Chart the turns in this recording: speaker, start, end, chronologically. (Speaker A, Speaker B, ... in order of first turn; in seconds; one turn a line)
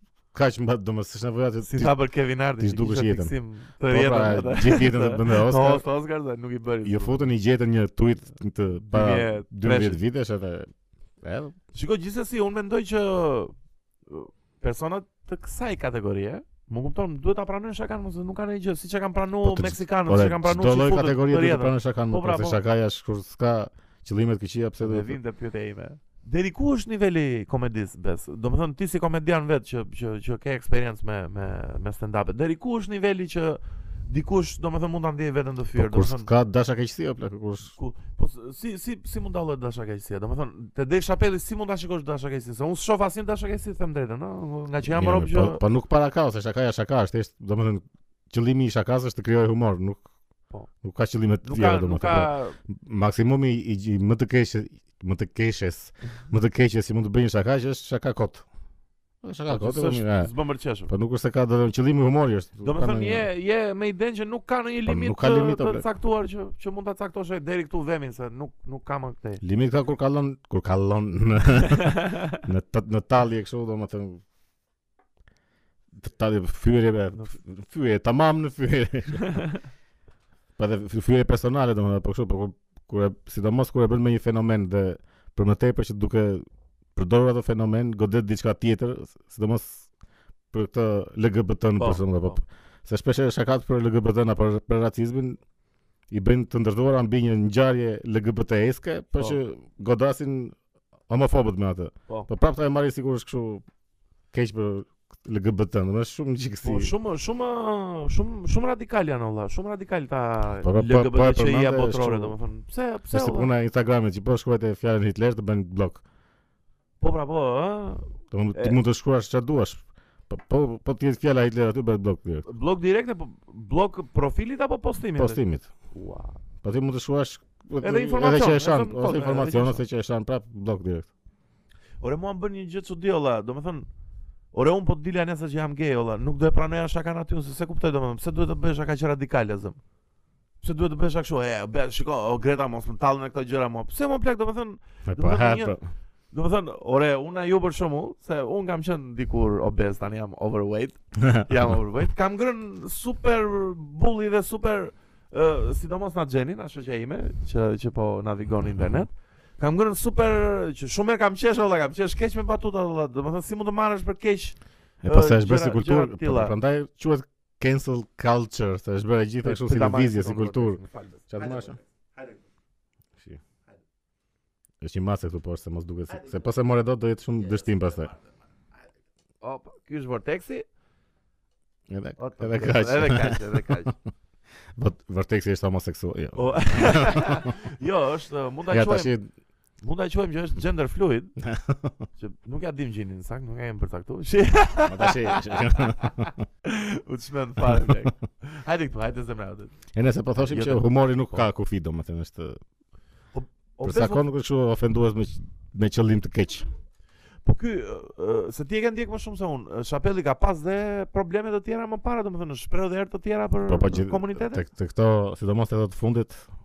Speaker A: 0.3-1.9
Speaker B: 1.6-7.3
Speaker A: 2.6-3.3
Speaker A: 3.9-5.8
Speaker A: 6.8-11.5
Speaker B: 8.9-10.0
Speaker B: 11.7-13.5
Speaker B: 14.1-22.6
Speaker A: 19.4-25.2
Speaker B: 24.8-36.3
Speaker A: 35.7-37.7
Speaker B: 37.7-45.6
Speaker A: 44.8-50.0
Speaker A: 50.8-58.5
Speaker B: 51.4-52.6
Speaker A: 59.2-60.3
Speaker B: 59.5-60.9
Speaker A: 60.9-63.3
Speaker B: 62.6-69.4
Speaker A: 64.8-65.8
Speaker A: 69.4-74.2
Speaker B: 71.8-72.4
Speaker A: 76.0-79.3
Speaker B: 79.3-79.6
Speaker A: 80.6-89.9
Speaker A: 90.5-95.4
Speaker B: 91.8-92.4
Speaker A: 96.1-100.5
Speaker A: 101.1-103.6
Speaker A: 104.3-106.9
Speaker B: 106.6-113.5
Speaker A: 110.6-112.4
Speaker A: 113.1-116.0
Speaker B: 117.0-118.8
Speaker A: 118.3-122.5
Speaker B: 122.4-125.4
Speaker A: 125.1-125.7
Speaker B: 125.9-126.4
Speaker A: 126.6-131.1
Speaker B: 127.8-129.8
Speaker B: 132.0-133.9
Speaker B: 134.5-139.8
Speaker B: 140.6-145.8
Speaker A: 145.0-145.8
Speaker B: 146.3-166.5
Speaker A: 165.0-171.8
Speaker B: 169.4-172.4
Speaker A: 174.8-178.1
Speaker B: 179.4-180.7
Speaker A: 181.9-183.9
Speaker B: 182.2-183.9
Speaker A: 184.8-187.5
Speaker B: 186.3-189.1
Speaker A: 188.7-189.3
Speaker B: 189.8-191.3
Speaker A: 191.4-192.0
Speaker B: 192.2-199.7
Speaker A: 194.8-196.4
Speaker A: 197.6-197.9
Speaker A: 199.9-202.6
Speaker B: 200.4-201.4
Speaker B: 203.3-204.2
Speaker A: 203.8-206.7
Speaker B: 207.4-214.6
Speaker A: 213.7-216.5